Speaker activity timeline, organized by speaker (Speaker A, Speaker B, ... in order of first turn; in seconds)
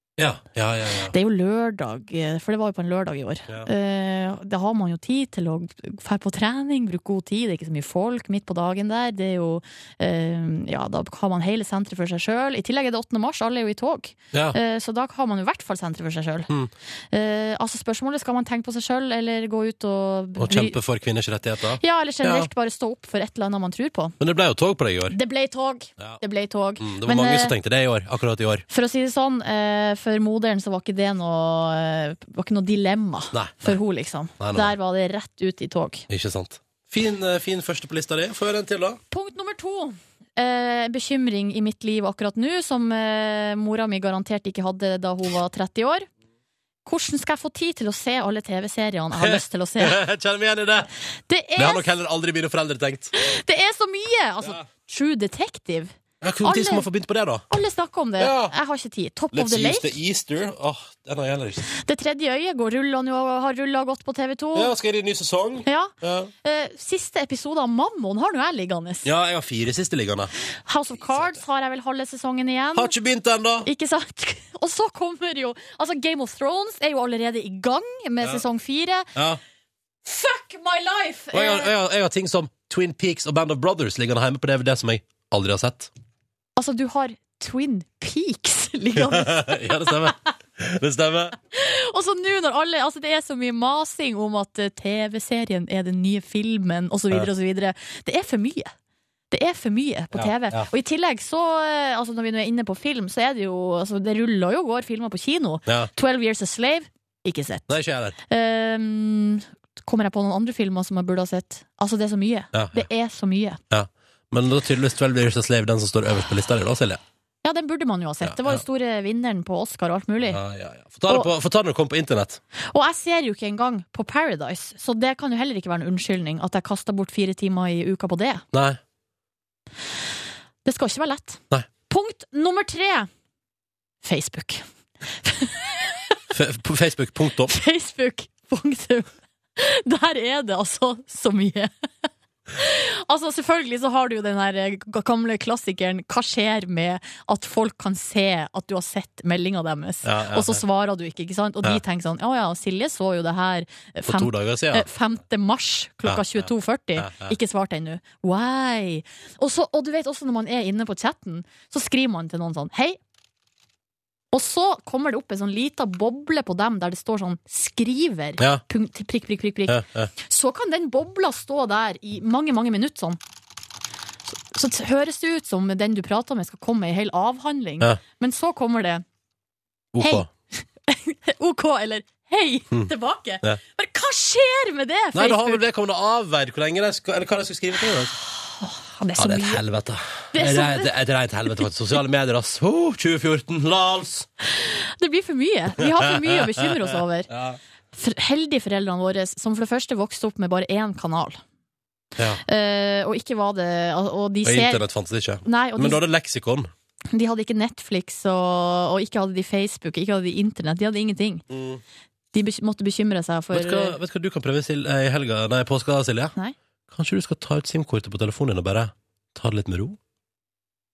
Speaker A: 0.2-1.1, 14.3-14.6, 20.4-22.5, 24.2-25.2, 26.8-28.6, 33.3-33.8, 34.4-34.7, 36.1-39.0, 49.2-50.9, 51.6-53.1, 56.2-57.5, 58.2-58.5, 59.3-61.7, 64.5-66.3, 69.0-70.3, 72.8-73.7, 79.2-79.4, 81.3-85.9, 89.0-91.4, 100.1-100.7, 105.7-105.9, 107.7-108.2, 112.5-112.9, 113.7-117.0, 118.2-118.6, 120.3-122.4, 128.5-128.8, 136.3-137.6, 150.0-150.6, 154.1-154.9, 156.1-157.3, 169.7-170.1, 179.9-180.3, 185.1-188.2, 189.2-194.3, 195.8-197.6, 202.2-202.4, 204.4-206.7, 211.5-211.8, 213.5-216.3, 216.9-220.0
Speaker B: 1.1-16.5, 17.1-20.8, 21.8-24.2, 25.1-27.5, 28.7-36.0, 39.1-46.1, 46.9-50.0, 51.3-51.9, 53.1-56.9, 57.5-60.0, 61.7-64.7, 65.7-65.9, 66.4-69.1, 70.7-72.9, 73.7-79.1, 80.1-81.7, 86.6-90.1, 91.5-98.7, 99.3-107.8, 108.3-113.6, 117.4-120.4, 122.7-128.4, 130.7-133.1, 134.0-134.6, 135.2-135.8, 137.5-141.9, 142.5-163.0, 164.3-173.2, 174.5-179.0, 180.0-185.6, 188.4-189.6, 190.3-190.9, 194.5-197.3, 197.9-201.4, 202.4-204.8, 205.4-206.0, 207.1-211.4, 212.3-214.0